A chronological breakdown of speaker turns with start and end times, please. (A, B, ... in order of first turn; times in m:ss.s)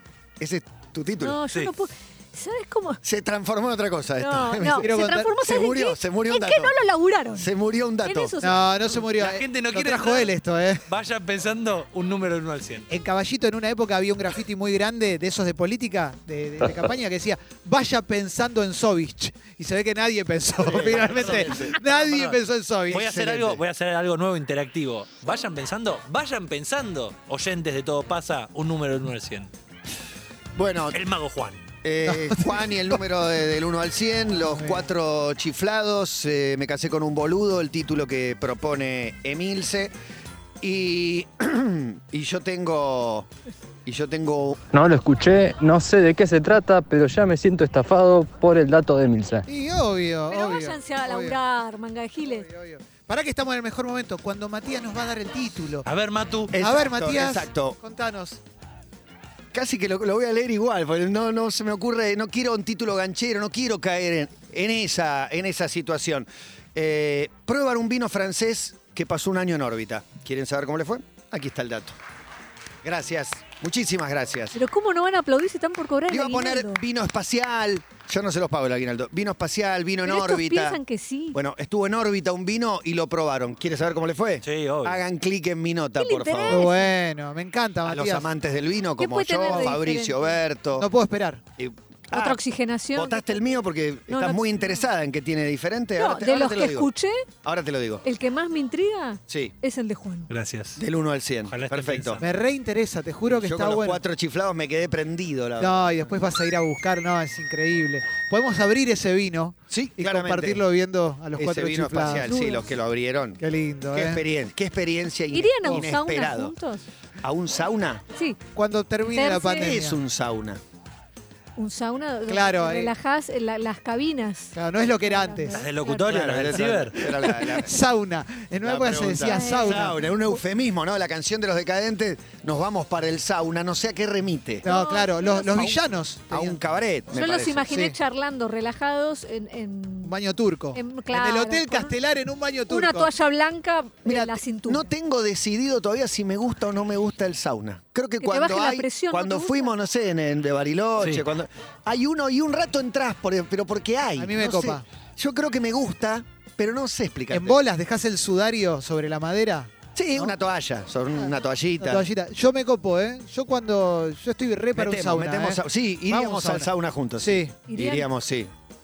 0:00.4-0:01.4 A
0:01.2-0:03.0 B
0:03.0-0:06.7 A
0:04.2-0:07.5 B
0:04.8-0:05.3 C
0:07.4-0:08.3 A
0:08.0-0:08.6 B
0:08.4-0:10.8 C
0:08.9-0:10.3 D
0:10.8-0:12.9 D
0:12.9-0:23.6 C
0:20.6-0:21.7 A
0:20.8-0:22.4 D
0:22.9-0:29.5 D
0:30.5-0:31.0 A
0:30.9-0:31.6 D
0:31.8-0:39.9 A
0:32.1-0:32.6 C
0:34.4-0:34.9 C
0:40.6-0:43.3 A
0:43.8-0:44.6 A
0:44.7-0:49.4 E
0:49.4-0:51.4 C
0:50.3-0:52.5 B
0:52.2-0:55.8 C
0:55.8-0:56.5 D
0:56.5-0:57.8 A
0:56.6-0:58.4 C
0:59.5-1:12.0 A
1:12.8-1:14.6 A
1:14.5-1:16.8 B
1:16.1-1:20.8 A
1:20.0-1:21.4 B
1:21.3-1:26.7 A
1:24.4-1:25.0 D
1:26.0-1:26.9 B
1:26.5-1:28.3 C
1:27.8-1:30.9 A
1:29.0-1:30.4 B
1:30.8-1:31.4 C
1:31.6-1:32.4 A
1:32.1-1:33.4 B
1:32.9-1:36.9 A
1:34.1-1:34.7 B
1:36.0-1:37.2 B
1:37.4-1:38.0 A
1:38.0-1:40.3 B
1:39.3-1:39.5 A
1:40.3-1:40.8 D
1:40.8-1:42.2 A
1:41.5-1:42.2 D
1:42.2-1:44.0 C
1:43.2-1:46.0 A
1:45.6-1:52.3 C
1:49.7-1:50.6 A
1:51.3-1:56.5 A
1:52.1-1:52.7 B
1:53.4-1:54.2 C
1:55.3-1:56.8 B
1:57.2-1:58.0 A
1:58.1-1:58.4 B
1:58.5-2:00.0 C
1:59.1-1:59.8 B
1:59.6-2:00.6 A
2:01.6-2:07.5 B
2:02.3-2:02.9 C
2:04.5-2:05.5 C
2:05.5-2:07.0 D
2:06.0-2:07.7 A
2:07.0-2:10.0 C
2:08.6-2:14.6 A
2:09.2-2:10.4 B
2:14.6-2:15.8 B
2:14.6-2:16.6 C
2:16.3-2:17.7 A
2:17.1-2:20.1 B
2:17.7-2:18.0 C
2:20.0-2:23.1 C
2:20.7-2:21.9 B
2:22.7-2:24.9 B
2:24.0-2:37.6 A
2:28.2-2:29.7 B
2:31.0-2:31.2 D
2:34.2-2:34.8 C
2:37.3-2:40.3 C
2:39.9-2:42.0 A
2:41.2-2:47.5 C
2:44.7-2:48.5 A
2:47.7-2:48.1 B